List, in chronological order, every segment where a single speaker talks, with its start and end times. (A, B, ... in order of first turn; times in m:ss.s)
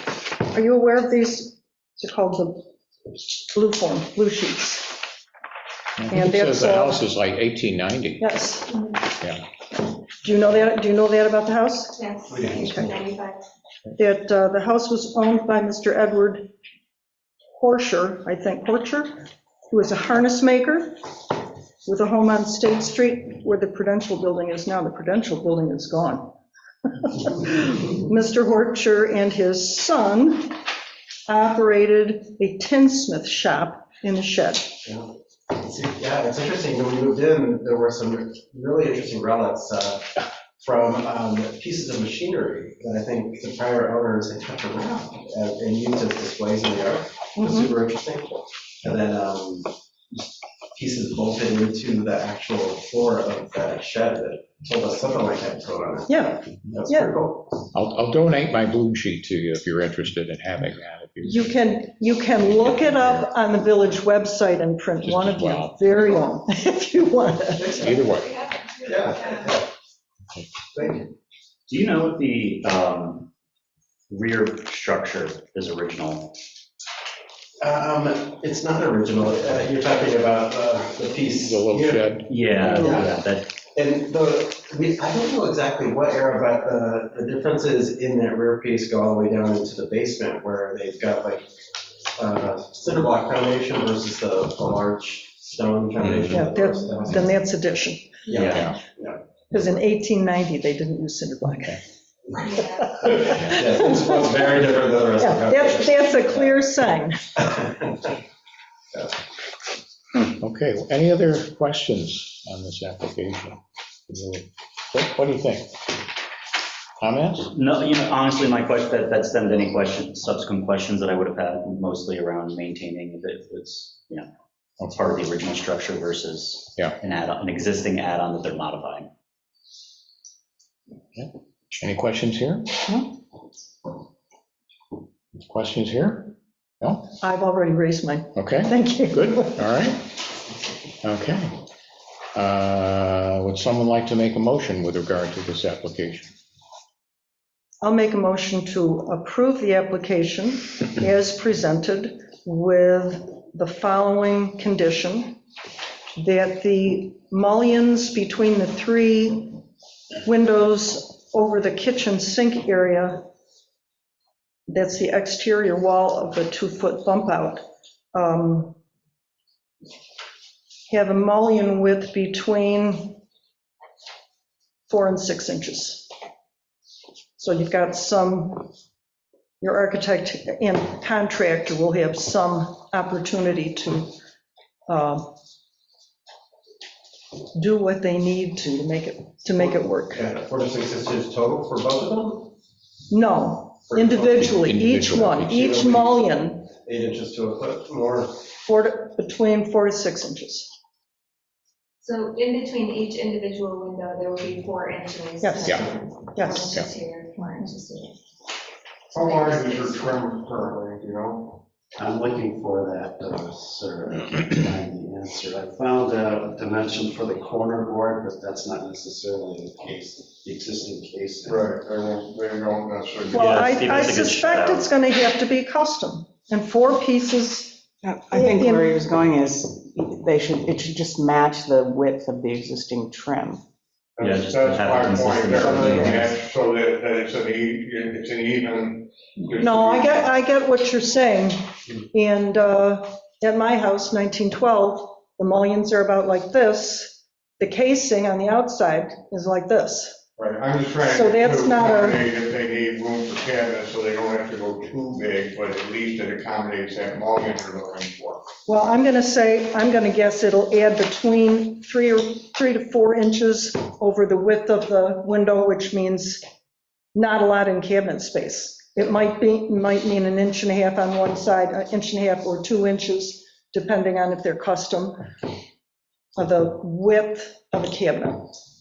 0:00.5-0:02.6 A
0:03.5-0:05.0 A
0:06.0-0:08.3 B
0:06.1-0:07.0 A
0:08.2-0:08.8 A
0:10.2-0:12.0 A
0:11.9-0:13.4 C
0:14.0-0:16.5 A
0:17.6-0:21.0 A
0:21.8-0:26.3 A
0:27.0-0:30.6 A
0:31.3-0:34.7 A
0:34.8-0:49.7 D
0:50.7-0:57.5 D
0:56.1-0:57.1 A
0:57.7-1:01.4 B
1:01.2-1:07.9 A
1:05.0-1:05.8 B
1:07.6-1:08.0 D
1:07.8-1:08.3 B
1:08.3-1:09.5 C
1:08.8-1:09.6 D
1:10.7-1:11.1 D
1:11.7-1:13.2 E
1:14.1-1:16.3 E
1:17.6-1:22.0 D
1:21.4-1:23.0 B
1:22.3-1:23.4 E
1:22.6-1:23.1 D
1:23.7-1:31.5 D
1:32.2-1:37.3 D
1:36.3-1:38.6 A
1:38.3-1:39.2 D
1:38.4-1:38.6 E
1:38.4-1:38.8 B
1:39.5-1:41.8 A
1:42.5-1:42.8 C
1:43.0-1:44.3 A
1:43.0-1:46.4 D
1:45.2-1:47.2 A
1:47.5-1:48.0 D
1:50.2-1:55.9 B
1:57.0-1:57.5 B
1:57.5-2:04.3 E
2:04.8-2:09.1 E
2:11.1-2:12.7 B
2:15.4-2:17.1 B
2:17.2-2:19.6 A
2:18.4-2:20.1 B
2:21.0-2:21.5 B
2:22.3-2:26.3 B
2:27.8-2:35.4 A
2:36.2-2:39.6 A
2:40.2-2:43.2 A
2:44.7-2:48.7 A
2:50.9-2:53.2 A
2:54.9-2:56.1 A
2:57.4-2:58.7 A
2:59.6-3:04.1 A
3:04.9-3:05.3 A
3:07.5-3:10.2 A
3:09.6-3:12.5 D
3:13.1-3:16.7 A
3:13.9-3:14.5 D
3:14.4-3:15.8 B
3:15.5-3:16.2 D
3:16.8-3:18.3 D
3:18.6-3:20.7 A
3:22.0-3:28.2 C
3:25.4-3:25.8 A
3:26.3-3:26.8 A
3:29.1-3:31.6 F
3:29.2-3:30.2 C
3:32.0-3:41.8 G
3:41.4-3:44.1 F
3:43.3-3:48.9 A
3:43.3-3:44.9 E
3:48.0-3:53.6 H
3:54.2-4:00.3 F
3:54.2-3:56.3 E
3:59.5-4:01.6 A
4:02.1-4:10.2 A
4:10.4-4:18.5 F
4:11.0-4:12.2 A
4:18.7-4:26.4 A
4:27.1-4:35.2 A
4:36.4-4:38.5 A